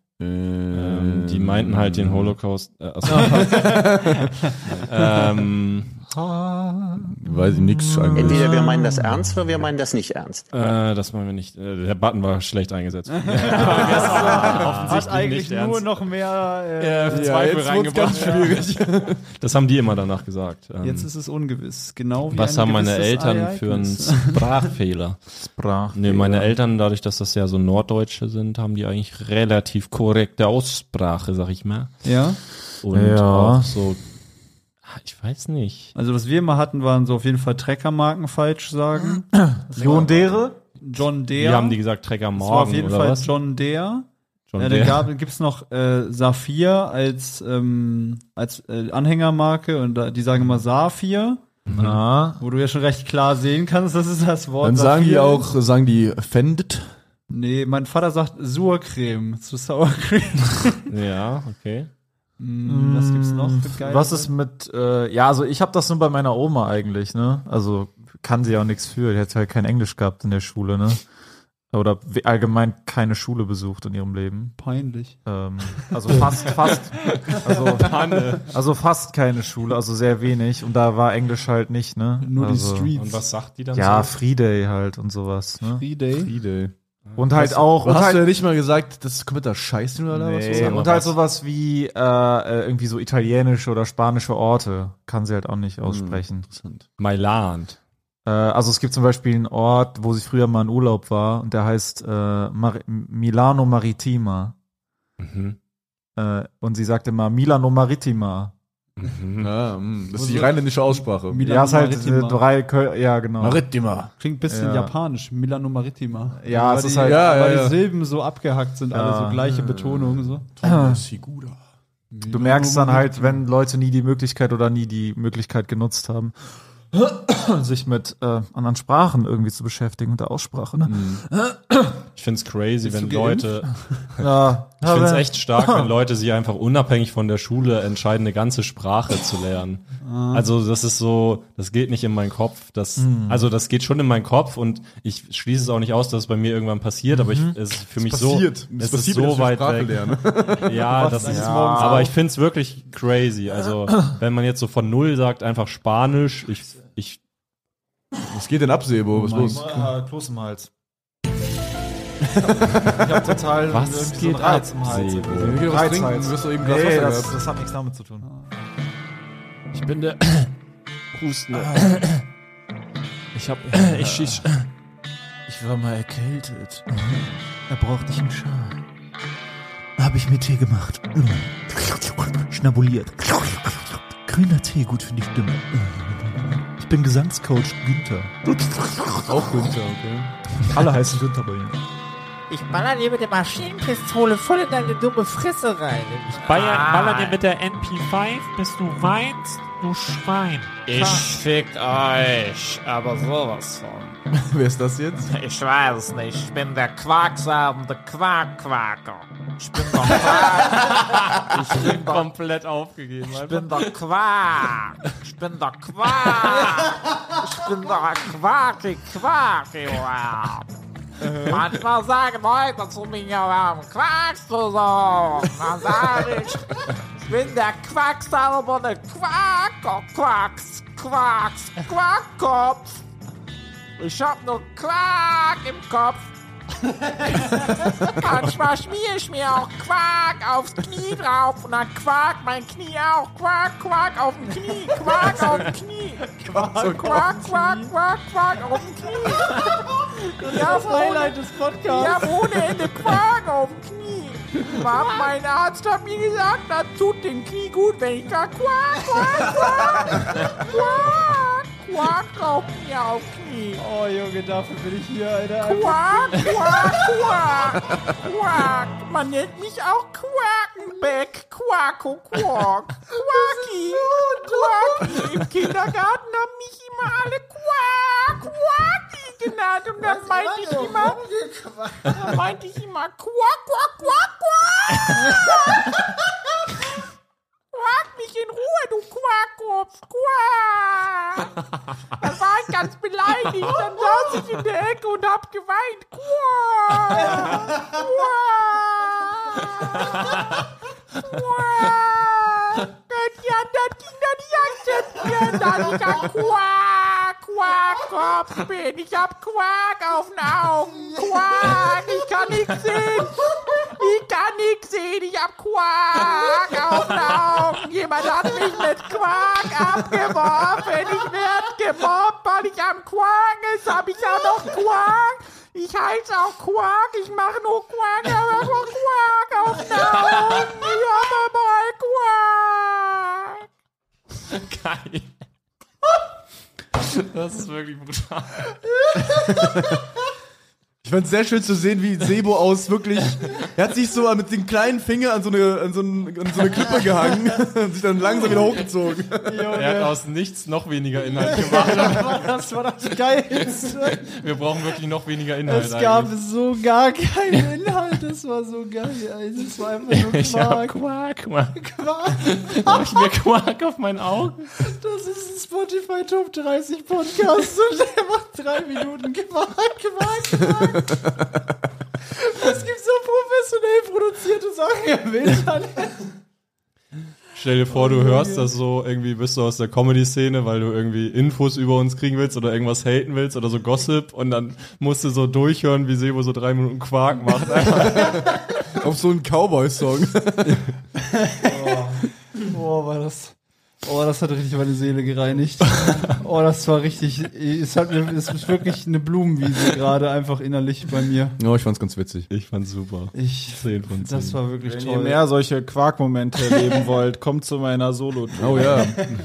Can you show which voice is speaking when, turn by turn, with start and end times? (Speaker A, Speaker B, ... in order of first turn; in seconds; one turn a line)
Speaker A: 0.2-2.4
Speaker B: 0.7-6.0
Speaker A: 3.0-4.3
Speaker C: 6.1-9.0
Speaker A: 7.0-8.6
Speaker D: 8.2-10.5
Speaker B: 10.5-16.1
Speaker E: 13.1-18.6
Speaker A: 14.4-14.9
Speaker B: 16.8-21.1
Speaker A: 17.1-19.2
Speaker E: 20.8-24.7
Speaker B: 22.3-25.2
Speaker C: 25.4-26.0
Speaker B: 25.9-32.0
Speaker E: 32.0-32.4
Speaker B: 32.8-34.0
Speaker C: 32.9-33.7
Speaker B: 34.9-35.9
Speaker E: 36.0-41.8
Speaker C: 39.3-40.6
Speaker B: 41.3-43.3
Speaker E: 42.3-51.4
Speaker B: 44.5-45.1
Speaker B: 51.7-52.0
Speaker C: 51.8-52.4
Speaker E: 52.4-55.5
Speaker A: 54.6-57.0
Speaker E: 57.3-60.8
Speaker B: 60.9-61.9
Speaker E: 62.4-64.3
Speaker C: 62.7-71.0
Speaker C: 71.7-74.6
Speaker E: 74.6-75.2
Speaker C: 75.2-82.9
Speaker B: 77.2-78.5
Speaker E: 82.2-83.3
Speaker B: 82.9-84.1
Speaker C: 83.7-85.8
Speaker E: 85.6-86.3
Speaker A: 86.2-86.7
Speaker C: 87.2-88.3
Speaker A: 87.3-90.8
Speaker C: 90.1-96.5
Speaker B: 90.5-91.2
Speaker A: 95.8-96.9
Speaker B: 97.0-97.8
Speaker C: 98.3-104.5
Speaker B: 105.2-105.6
Speaker C: 106.2-108.5
Speaker B: 109.0-109.5
Speaker A: 109.4-111.5
Speaker E: 110.2-110.5
Speaker E: 111.3-112.4
Speaker C: 111.4-113.7
Speaker A: 113.4-114.1
Speaker E: 114.2-120.5
Speaker C: 114.5-114.9
Speaker C: 116.4-117.3
Speaker A: 117.0-117.8
Speaker C: 118.9-119.4
Speaker A: 119.5-121.6
Speaker C: 120.6-121.0
Speaker A: 122.2-122.7
Speaker C: 122.3-126.3
Speaker E: 122.3-123.4
Speaker C: 126.9-131.9
Speaker A: 130.8-131.2
Speaker B: 132.2-134.3
Speaker E: 132.8-133.7
Speaker C: 134.2-135.9
Speaker B: 134.8-157.2
Speaker E: 140.0-140.4
Speaker C: 143.0-143.4
Speaker C: 147.1-147.5
Speaker A: 148.0-151.0
Speaker E: 151.0-152.1
Speaker C: 151.1-152.1
Speaker A: 158.3-159.6
Speaker C: 159.1-160.7
Speaker C: 162.4-168.3
Speaker A: 162.5-162.9
Speaker B: 163.7-165.7
Speaker A: 165.3-167.4
Speaker B: 169.7-170.5
Speaker B: 171.1-172.2
Speaker B: 173.3-174.7
Speaker C: 173.7-174.4
Speaker C: 175.5-176.9
Speaker F: 176.9-178.7
Speaker F: 180.0-188.3
Speaker A: 189.3-190.3
Speaker C: 190.7-191.8
Speaker G: 192.5-197.4
Speaker H: 196.3-201.2
Speaker G: 200.9-204.2
Speaker A: 204.4-205.3
Speaker G: 205.2-212.3
Speaker B: 211.5-213.9
Speaker G: 213.3-220.7
Speaker G: 221.3-233.0
Speaker G: 234.0-236.3
Speaker G: 237.1-263.8
Speaker E: 245.2-245.6
Speaker E: 246.5-247.9
Speaker A: 246.5-247.2
Speaker E: 250.2-252.7
Speaker E: 254.9-255.3
Speaker E: 263.8-267.0
Speaker G: 265.6-281.2
Speaker E: 273.1-275.2
Speaker E: 280.0-282.4
Speaker G: 282.1-286.0
Speaker G: 287.7-291.6
Speaker G: 292.2-300.6
Speaker G: 301.2-333.6
Speaker B: 334.5-335.3
Speaker B: 337.0-338.8
Speaker A: 339.3-339.9
Speaker A: 341.0-349.8
Speaker E: 349.4-350.2
Speaker B: 349.7-352.5
Speaker E: 351.3-354.3
Speaker B: 353.7-356.4
Speaker E: 355.7-361.0
Speaker B: 360.1-364.8
Speaker E: 361.7-363.3
Speaker E: 364.8-371.2
Speaker E: 372.4-376.2
Speaker B: 377.6-388.5
Speaker E: 377.9-378.7
Speaker A: 388.9-390.8
Speaker E: 391.5-392.1
Speaker C: 391.7-392.2
Speaker E: 392.6-401.6
Speaker A: 401.6-402.5
Speaker B: 402.5-404.6
Speaker E: 403.3-405.4
Speaker C: 404.8-409.1
Speaker A: 408.6-409.2